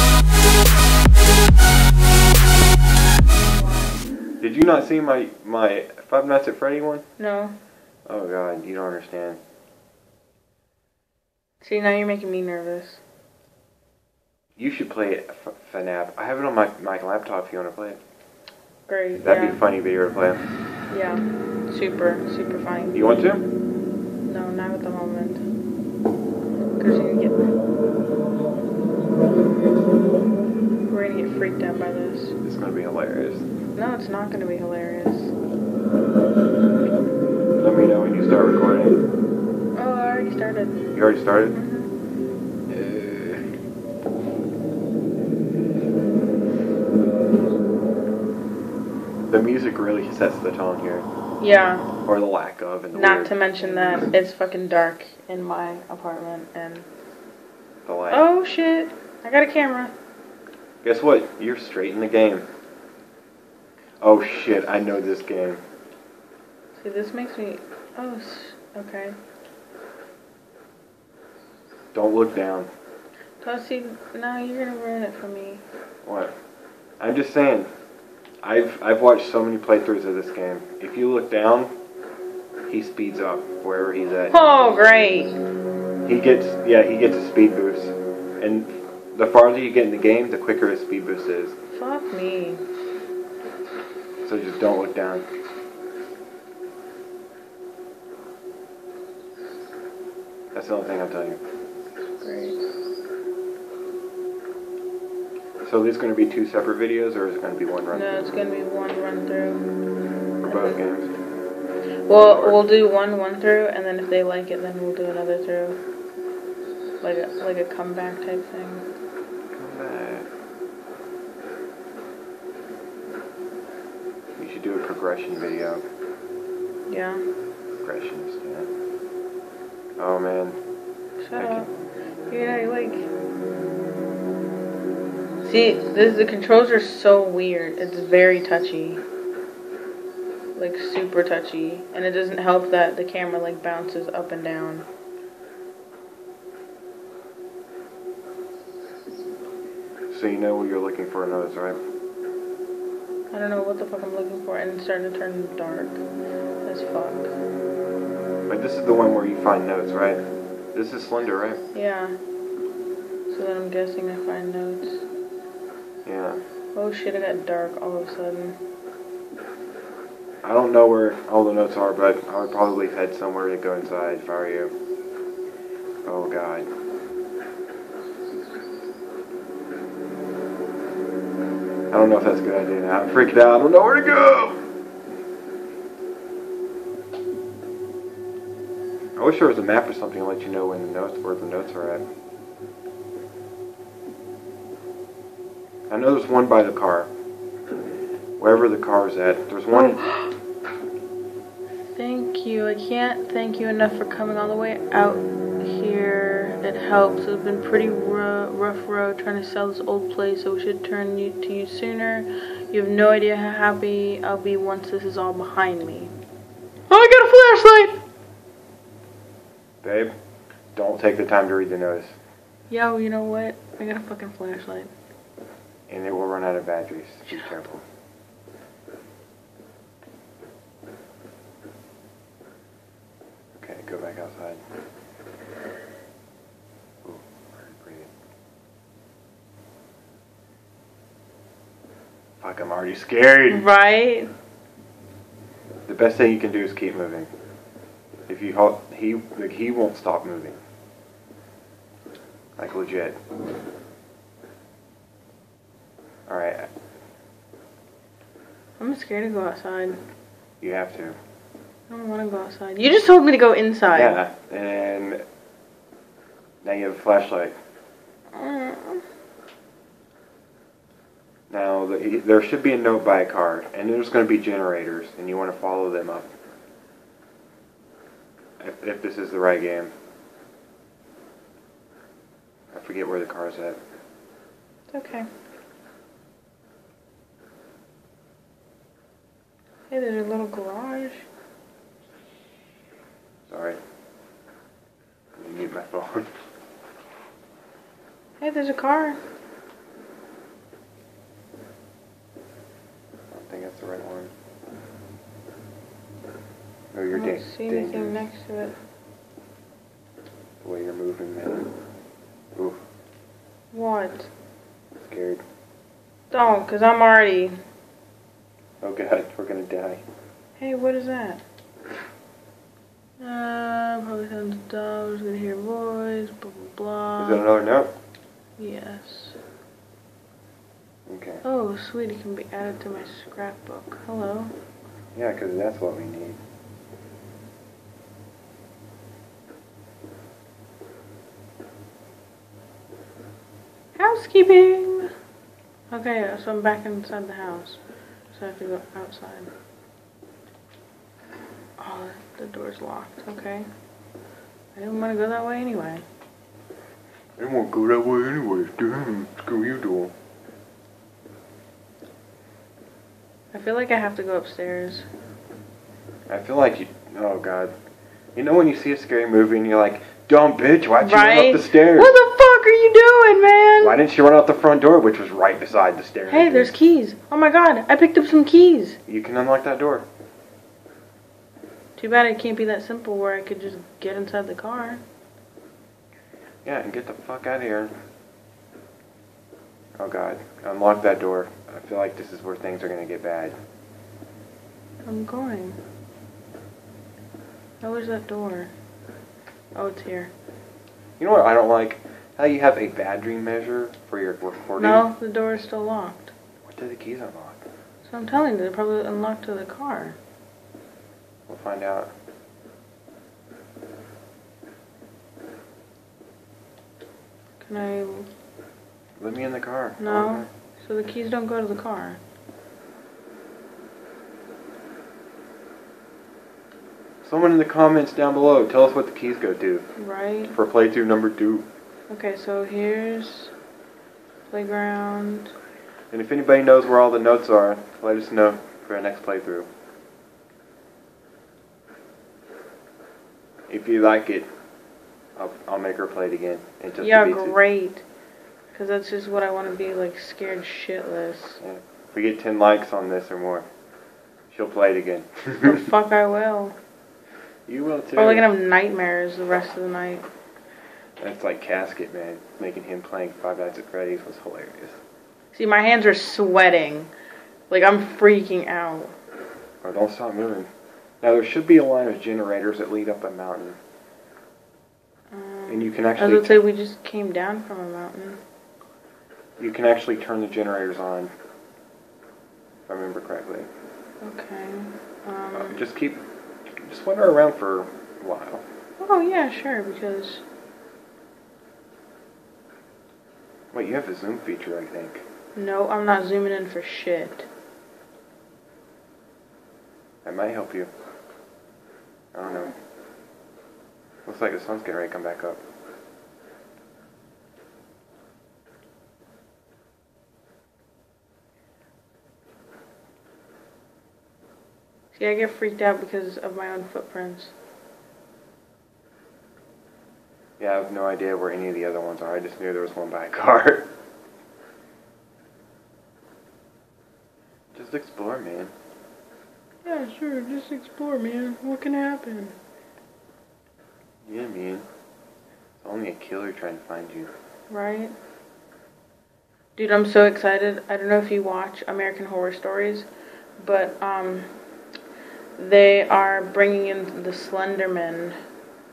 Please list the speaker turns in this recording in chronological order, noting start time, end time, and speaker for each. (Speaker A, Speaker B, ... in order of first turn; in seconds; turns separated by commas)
Speaker A: 3.5-4.0, Speaker B: 4.4-7.0, Speaker A: 7.2-7.6, Speaker B: 8.1-9.4, Speaker A: 11.6-13.0, Speaker B: 14.6-18.0, Speaker A: 18.9-19.6, Speaker B: 19.2-20.4, Speaker A: 20.9-23.0, Speaker B: 22.9-23.4, Speaker A: 24.3-25.4, Speaker A: 26.8-27.6, Speaker A: 30.9-32.4, Speaker B: 32.4-33.5, Speaker A: 33.8-35.3, Speaker B: 37.6-39.0, Speaker A: 39.8-40.9, Speaker B: 40.9-41.6, Speaker A: 41.5-41.9, Speaker B: 42.7-43.5, Speaker B: 49.3-51.1, Speaker A: 51.4-51.9, Speaker B: 52.0-54.1, Speaker A: 52.9-56.9, Speaker B: 57.9-58.2, Speaker A: 58.1-59.9, Speaker B: 60.8-62.5, Speaker B: 64.0-65.6, Speaker A: 66.8-69.2, Speaker B: 71.9-72.7, Speaker A: 73.4-75.6, Speaker B: 76.0-76.3, Speaker B: 77.0-77.7, Speaker B: 78.4-81.7, Speaker B: 82.7-84.4, Speaker A: 84.3-85.4, Speaker B: 86.0-91.6, Speaker A: 91.7-92.6, Speaker B: 94.2-95.3, Speaker B: 100.5-101.4, Speaker A: 102.2-102.6, Speaker B: 105.7-108.2, Speaker A: 107.9-109.7, Speaker B: 110.4-111.1, Speaker A: 110.5-110.8, Speaker A: 112.1-115.8, Speaker B: 112.1-112.6, Speaker A: 117.0-118.9, Speaker B: 119.5-120.3, Speaker B: 124.4-125.8, Speaker A: 126.9-127.2, Speaker B: 127.8-128.7, Speaker B: 130.0-130.6, Speaker A: 131.2-131.7, Speaker B: 131.4-131.7, Speaker A: 132.3-133.1, Speaker A: 135.4-139.0, Speaker A: 140.6-144.9, Speaker B: 150.1-151.8, Speaker A: 153.3-156.0, Speaker A: 156.7-157.3, Speaker B: 158.5-160.2, Speaker B: 160.7-161.6, Speaker A: 161.7-162.2, Speaker A: 163.3-165.1, Speaker B: 166.1-166.4, Speaker A: 166.8-168.6, Speaker B: 170.4-174.7, Speaker B: 176.1-176.7, Speaker B: 181.9-184.6, Speaker B: 189.2-192.0, Speaker B: 195.9-197.1, Speaker B: 198.4-200.0, Speaker A: 199.7-200.3, Speaker A: 201.9-216.1, Speaker A: 216.9-218.0, Speaker B: 219.8-220.2, Speaker B: 220.8-222.2, Speaker A: 222.7-224.9, Speaker B: 225.9-227.8, Speaker B: 233.6-234.6, Speaker B: 237.0-238.1, Speaker B: 242.4-243.7, Speaker A: 243.5-244.3, Speaker B: 245.9-247.3, Speaker B: 248.3-250.6, Speaker B: 252.6-253.2, Speaker B: 256.3-256.7, Speaker A: 258.8-260.0, Speaker B: 260.6-261.2, Speaker A: 261.9-264.2, Speaker B: 263.9-265.2, Speaker B: 266.6-267.6, Speaker A: 268.3-269.1, Speaker B: 271.5-276.3, Speaker B: 278.6-279.9, Speaker B: 282.7-283.8, Speaker A: 284.9-285.3, Speaker A: 289.9-291.3, Speaker B: 293.5-293.8, Speaker B: 295.4-296.3, Speaker A: 298.4-299.2, Speaker B: 303.3-304.3, Speaker B: 306.9-308.2, Speaker A: 307.1-308.8, Speaker B: 310.6-311.7, Speaker A: 313.7-314.3, Speaker B: 315.0-315.4, Speaker A: 316.3-317.6, Speaker B: 318.8-320.0, Speaker A: 320.6-321.4, Speaker A: 323.2-327.4, Speaker B: 327.2-327.9, Speaker A: 328.6-329.4, Speaker B: 331.1-331.4, Speaker A: 331.4-334.5, Speaker B: 335.1-336.4, Speaker A: 344.0-345.1, Speaker A: 345.9-347.8, Speaker A: 348.3-349.5, Speaker A: 351.8-353.7, Speaker A: 354.8-356.1, Speaker B: 357.4-360.1, Speaker A: 363.5-365.1, Speaker B: 366.3-367.7, Speaker B: 368.4-372.2, Speaker A: 371.0-374.0, Speaker B: 373.8-376.7, Speaker A: 376.3-379.0, Speaker B: 379.1-380.1, Speaker A: 382.0-385.0, Speaker B: 386.6-387.9, Speaker B: 390.0-393.6, Speaker A: 395.1-395.8, Speaker A: 397.8-398.7, Speaker A: 399.8-400.3, Speaker B: 401.2-405.1, Speaker A: 404.8-406.3, Speaker B: 406.7-407.6, Speaker A: 408.0-410.2, Speaker B: 411.5-412.1, Speaker A: 417.6-418.3, Speaker B: 419.2-420.5, Speaker A: 420.0-422.2, Speaker B: 427.2-429.9, Speaker A: 430.0-430.6, Speaker B: 430.5-431.7, Speaker A: 432.1-433.5, Speaker A: 434.5-435.5, Speaker B: 436.1-439.7, Speaker B: 443.7-444.5, Speaker B: 445.4-447.6, Speaker A: 447.0-448.0, Speaker A: 448.7-451.6, Speaker B: 451.6-453.7, Speaker B: 454.5-455.8, Speaker A: 455.6-456.8, Speaker B: 457.7-458.5, Speaker A: 458.2-460.3, Speaker B: 461.2-465.0, Speaker A: 465.5-467.1, Speaker A: 467.7-469.2, Speaker B: 469.8-470.7, Speaker B: 471.2-473.8, Speaker A: 475.3-478.4, Speaker B: 475.7-476.6, Speaker B: 479.6-481.3, Speaker B: 482.9-483.7, Speaker A: 484.2-485.8, Speaker B: 485.5-486.2, Speaker B: 486.8-488.6, Speaker A: 489.0-490.4, Speaker B: 493.7-495.2, Speaker A: 495.6-497.5, Speaker B: 500.2-500.9, Speaker B: 502.3-502.8, Speaker B: 504.2-505.6, Speaker A: 515.1-517.5, Speaker B: 520.6-523.9, Speaker B: 527.7-528.7, Speaker A: 529.9-532.6, Speaker B: 534.3-534.9, Speaker B: 535.8-537.3, Speaker A: 537.7-538.1, Speaker A: 539.8-543.1, Speaker A: 543.6-544.5, Speaker A: 545.6-548.4